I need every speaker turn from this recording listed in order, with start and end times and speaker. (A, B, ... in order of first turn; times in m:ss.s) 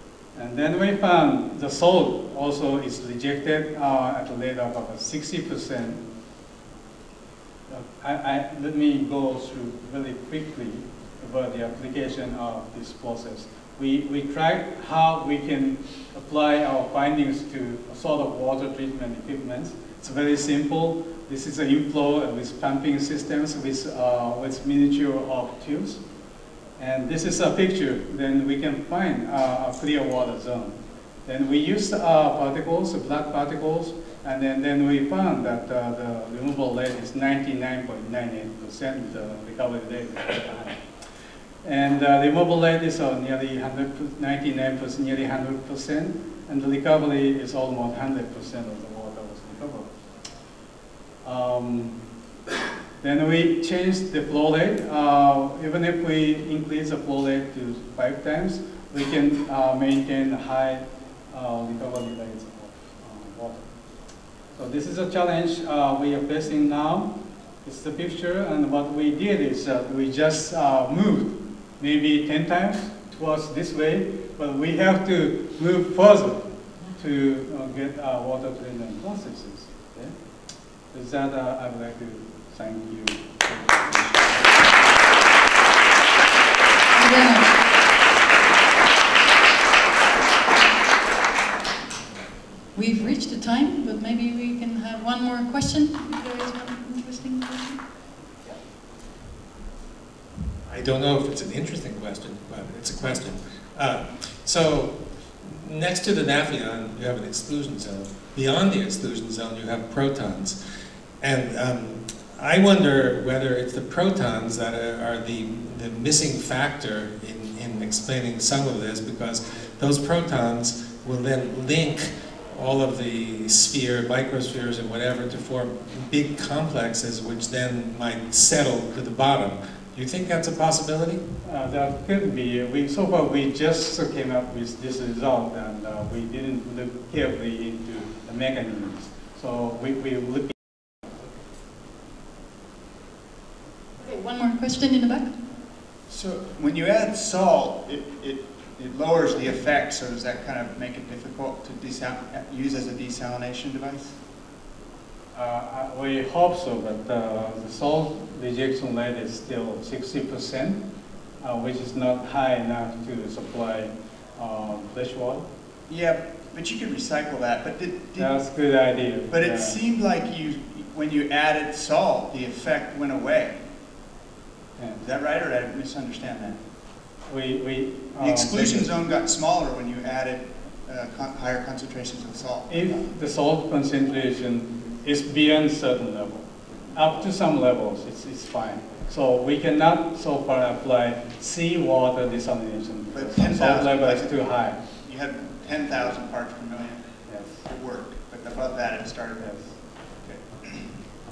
0:00.4-0:06.0 A
0:07.7-0:26.0 A
0:26.8-0:30.7 A
0:31.2-0:40.8 A
0:41.6-0:49.9 A
0:51.2-0:52.0 A
0:53.0-1:03.7 A
1:04.6-1:07.1 A
1:07.6-1:16.5 A
1:17.0-1:20.1 A
1:20.9-1:24.5 A
1:26.9-1:27.6 B
1:32.7-1:37.8 B
1:40.7-1:50.6 C
1:51.2-2:11.2 C
2:11.4-2:20.6 A
2:24.0-2:25.3 B
2:26.1-2:34.2 D
2:35.3-2:40.8 A
2:41.4-2:45.4 A
2:45.9-2:48.3 D
2:48.2-2:49.8 A
2:49.3-2:53.6 D
2:54.8-2:55.0 A
2:55.0-2:56.6 D
2:57.3-2:58.9 A
2:58.2-3:02.8 D
3:02.7-3:14.8 A
3:13.1-3:14.4 D
3:15.0-3:17.0 D
3:17.3-3:17.6 A
3:17.6-3:19.5 D
3:19.4-3:19.7 A
3:20.2-3:20.9 D